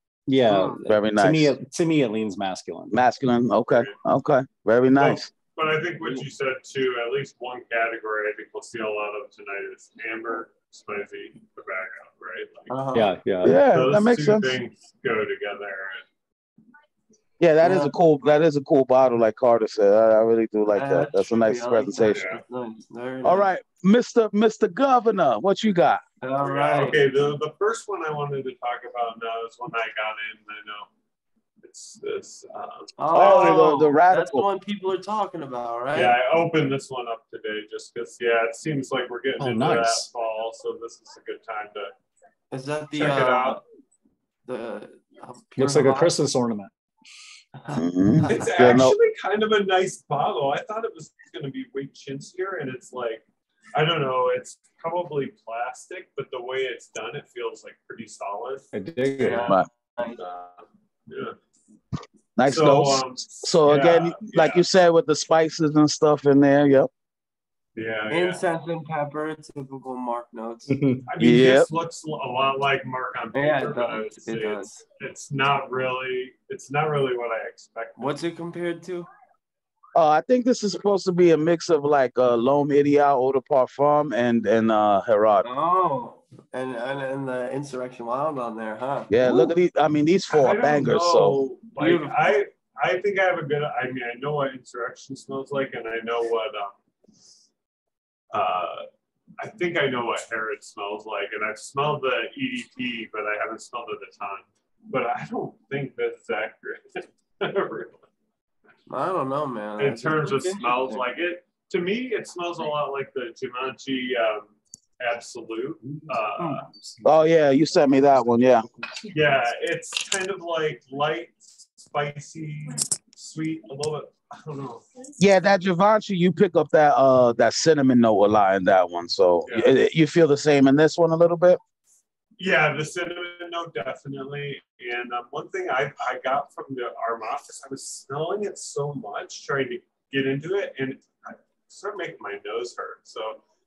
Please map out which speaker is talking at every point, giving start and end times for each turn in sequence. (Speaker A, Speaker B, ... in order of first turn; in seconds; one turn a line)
Speaker A: 0.3-2.9
Speaker B: 0.5-0.8
Speaker C: 0.8-1.5
Speaker C: 2.9-5.3
Speaker D: 3.7-3.9
Speaker D: 4.9-12.7
Speaker B: 12.7-13.1
Speaker A: 12.9-13.6
Speaker C: 13.4-14.5
Speaker D: 13.7-16.0
Speaker C: 17.4-22.2
Speaker B: 17.6-17.9
Speaker B: 20.7-23.5
Speaker D: 22.1-22.4
Speaker C: 23.2-26.0
Speaker B: 26.2-27.0
Speaker D: 26.4-30.9
Speaker D: 31.6-33.7
Speaker B: 33.0-36.2
Speaker C: 33.1-34.5
Speaker D: 35.9-41.9
Speaker A: 39.4-40.1
Speaker B: 42.5-43.6
Speaker D: 43.0-43.6
Speaker B: 44.4-46.1
Speaker A: 45.5-46.7
Speaker B: 47.6-48.5
Speaker C: 47.7-49.0
Speaker D: 48.3-58.7
Speaker A: 58.7-59.5
Speaker B: 59.2-60.2
Speaker D: 59.2-59.6
Speaker D: 60.1-61.3
Speaker C: 62.4-66.9
Speaker D: 62.4-64.7
Speaker D: 67.7-68.4
Speaker B: 68.1-70.8
Speaker A: 70.7-71.0
Speaker D: 71.1-78.2
Speaker C: 71.2-71.7
Speaker B: 73.3-74.8
Speaker B: 78.0-79.1
Speaker C: 79.9-85.5
Speaker B: 85.4-89.5
Speaker C: 89.1-91.4
Speaker D: 90.3-96.8
Speaker B: 91.8-92.3
Speaker D: 98.3-98.8
Speaker D: 99.4-108.0
Speaker B: 108.9-111.0
Speaker D: 109.8-116.6
Speaker C: 117.0-118.6
Speaker D: 119.1-124.8
Speaker C: 125.2-131.6
Speaker D: 132.4-143.4